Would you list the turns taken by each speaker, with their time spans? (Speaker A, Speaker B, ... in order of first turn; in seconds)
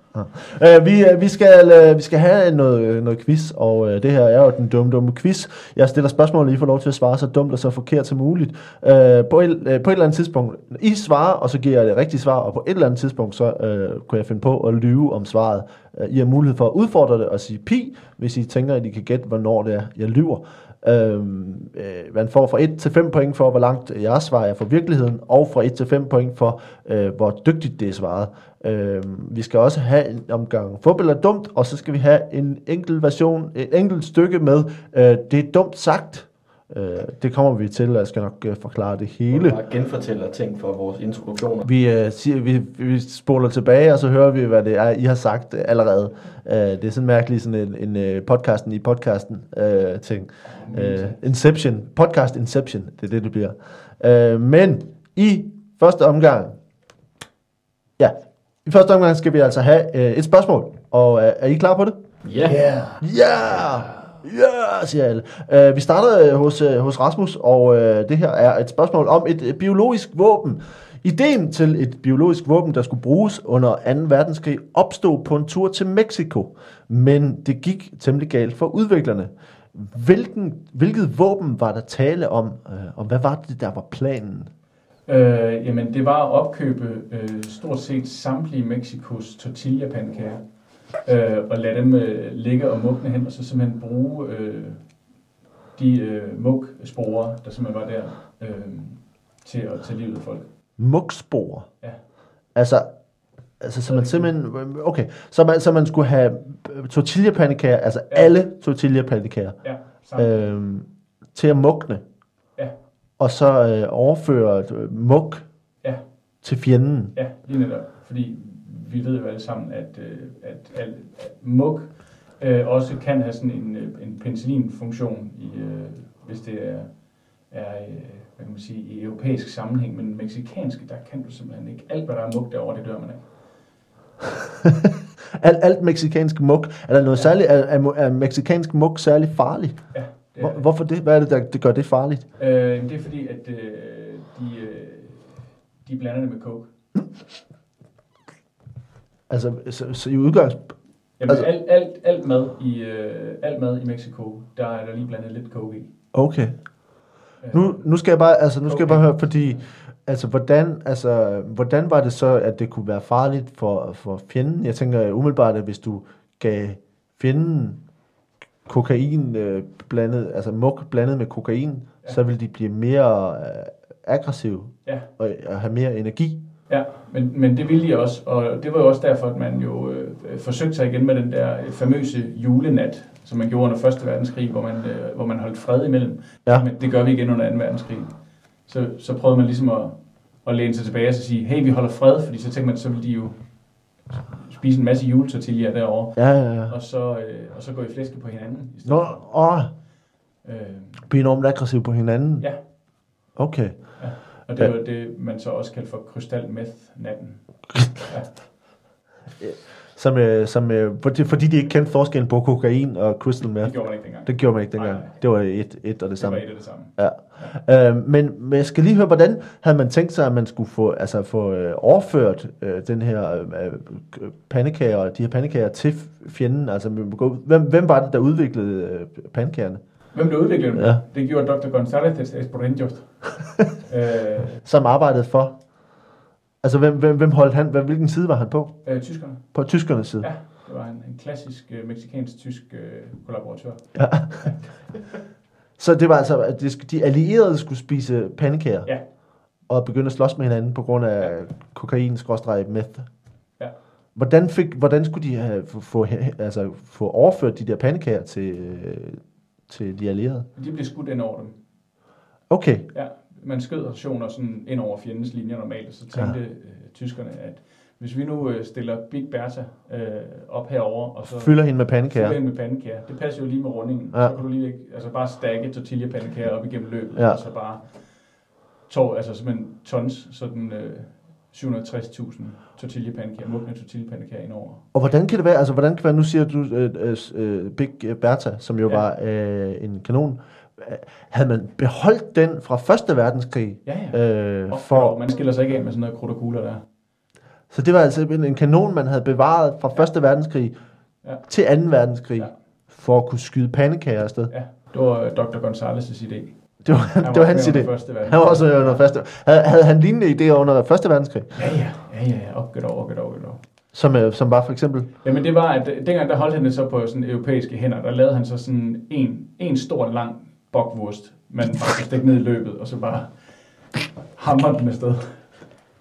Speaker A: 0.1-39.6, 41.6-56.6, 58.0-62.0, 63.0-84.5, 100.8-101.7, 102.5-102.9, 103.6-112.0, 113.2-115.5, 116.4-117.1, 135.4-142.3, 149.3-151.5, 156.1-156.8, 157.5-167.8, 168.7-176.4, 196.2-196.7, 198.8-199.7, 201.1-202.7, 203.3-204.7, 209.4-229.8, 230.7-231.0, 234.6-235.7, 236.6-240.3, 243.9-244.6, 245.8-253.1, 254.1-260.5, 262.5-262.9, 271.2-272.4, 274.1-274.4, 277.1-277.4, 284.9-295.2, 297.7-300.7, 301.3-304.5, 306.8-311.6, 313.9-315.1
Speaker B: 39.3-41.7
Speaker C: 50.5-51.2, 62.2-63.0, 85.1-95.0, 95.7-100.5, 103.9-104.3, 109.6-110.5, 117.1-133.3, 139.9-140.7, 142.4-146.7, 151.2-155.9, 157.4-157.9, 158.6-159.7, 176.7-199.4, 200.4-201.1, 204.0-208.7, 213.6-215.2, 216.2-217.5, 230.1-234.6, 238.8-244.5, 260.6-261.6, 262.9-284.8, 293.9-296.9, 304.5-309.1, 311.6-313.6, 315.2-325.8